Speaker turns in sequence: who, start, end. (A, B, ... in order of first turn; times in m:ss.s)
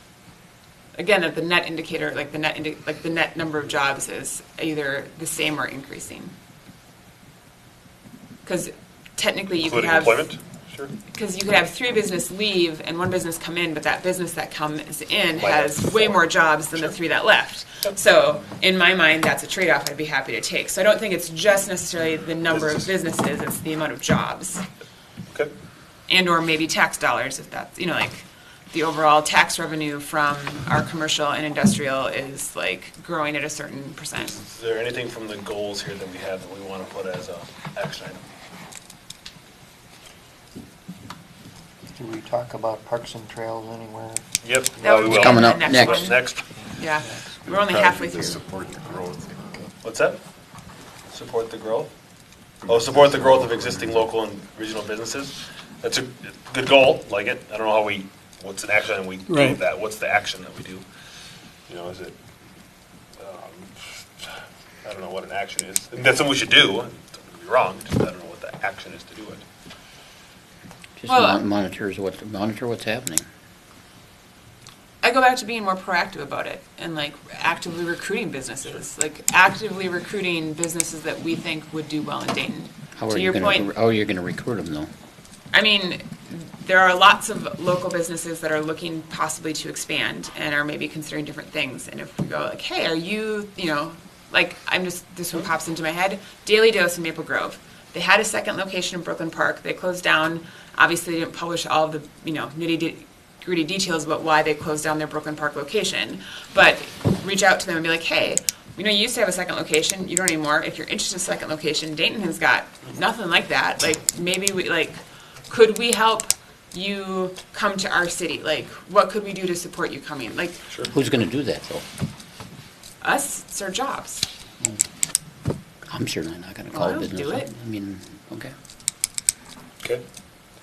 0:01.0-0:06.3 A
0:08.5-0:10.3 A
0:09.6-0:10.9 B
0:11.1-0:24.6 A
0:15.4-0:16.9 B
0:26.1-0:34.4 A
0:34.3-0:38.2 B
0:42.0-0:45.1 C
0:44.4-0:46.4 B
0:44.8-0:48.6 A
0:45.1-0:46.1 D
0:47.4-0:49.6 E
0:49.8-0:50.2 B
0:51.1-0:51.9 B
0:52.7-1:00.8 B
1:01.7-1:02.2 B
1:03.2-1:09.4 B
1:11.0-1:13.2 D
1:11.1-1:11.4 A
1:15.0-1:23.7 A
1:23.0-1:24.9 D
1:25.5-1:55.0 A
1:55.5-2:00.6 A
2:00.9-2:01.8 D
2:03.0-2:04.2 A
2:05.9-2:08.6 D
2:06.7-2:07.5 A